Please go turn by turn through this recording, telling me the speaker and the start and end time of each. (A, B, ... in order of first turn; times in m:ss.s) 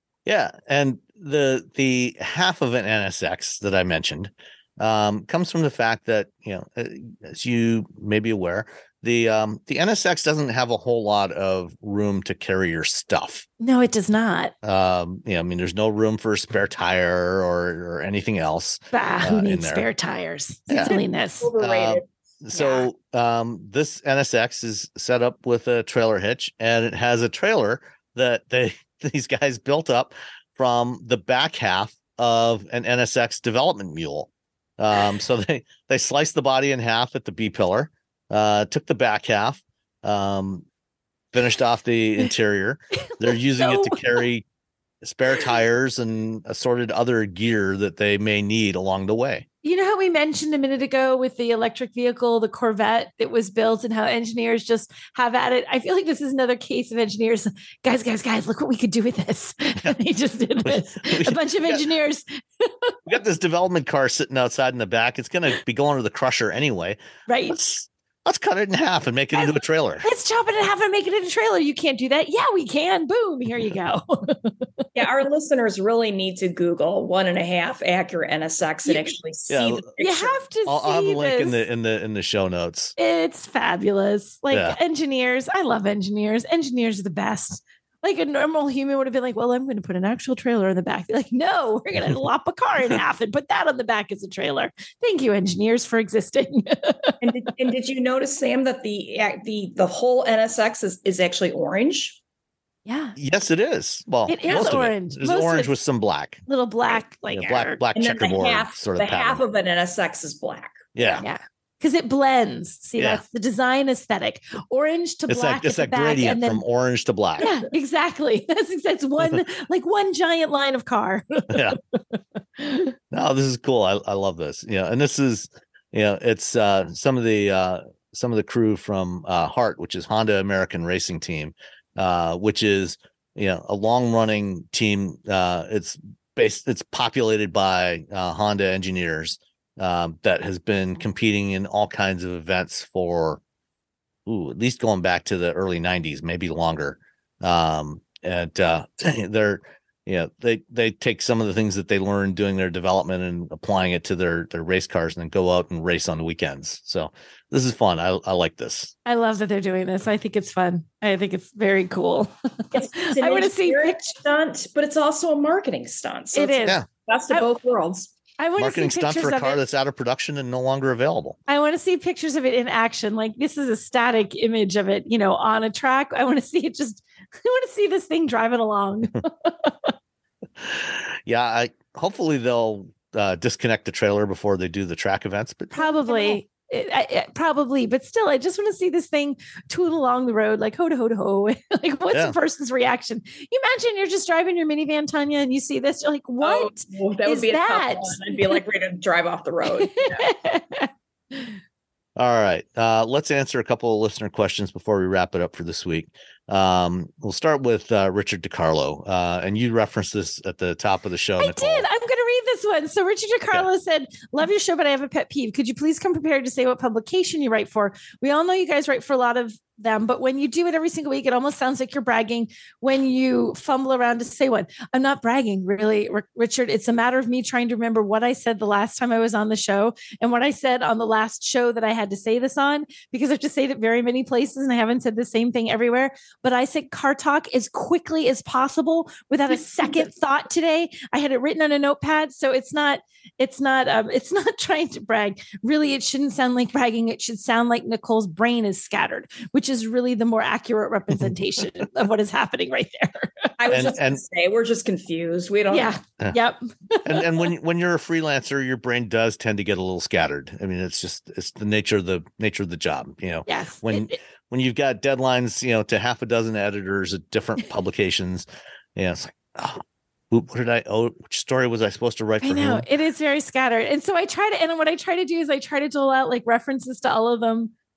0:00.2-0:13.4 A
0:13.6-0:14.5 B
0:14.6-0:19.9 A
0:18.9-0:21.5 B
0:20.7-0:21.0 A
0:20.8-0:22.0 C
0:21.6-0:40.6 A
0:22.5-0:22.9 B
0:41.3-0:44.4 A
0:43.0-0:44.2 B
0:45.0-0:49.4 A
0:49.6-1:03.0 B
1:00.6-1:01.8 A
1:03.1-1:10.0 A
1:07.3-1:07.6 B
1:09.3-1:14.8 B
1:14.9-1:20.4 C
1:19.5-1:19.8 A
1:20.0-1:21.6 B
1:20.7-1:22.9 A
1:23.0-1:37.2 B
1:24.5-1:24.8 A
1:37.2-1:42.2 C
1:42.8-1:43.1 B
1:43.2-1:46.4 A
1:44.3-1:45.7 B
1:46.5-1:47.8 B
1:47.3-1:49.4 A
1:47.9-1:50.8 C
1:50.9-1:51.2 A
1:51.2-1:56.6 B
1:55.3-1:57.5 A
1:57.4-2:02.0 B
2:01.5-2:01.8 A
2:02.6-2:02.9 B
2:03.1-2:23.4 A
2:24.2-2:38.9 A
2:39.0-2:44.0 B
2:42.7-2:48.1 C
2:46.3-2:46.8 B
2:48.4-2:49.6 B
2:48.6-2:51.4 A
2:51.5-2:59.9 B
3:00.6-3:06.2 A
3:05.7-3:18.6 B
3:16.4-3:20.3 C
3:19.7-3:21.6 B
3:22.2-3:31.9 A
3:31.4-4:13.5 B
4:13.6-4:16.0 C
4:13.7-4:14.2 A
4:15.7-4:17.3 B
4:17.0-4:32.8 A
4:23.5-4:24.2 B
4:32.4-4:37.7 B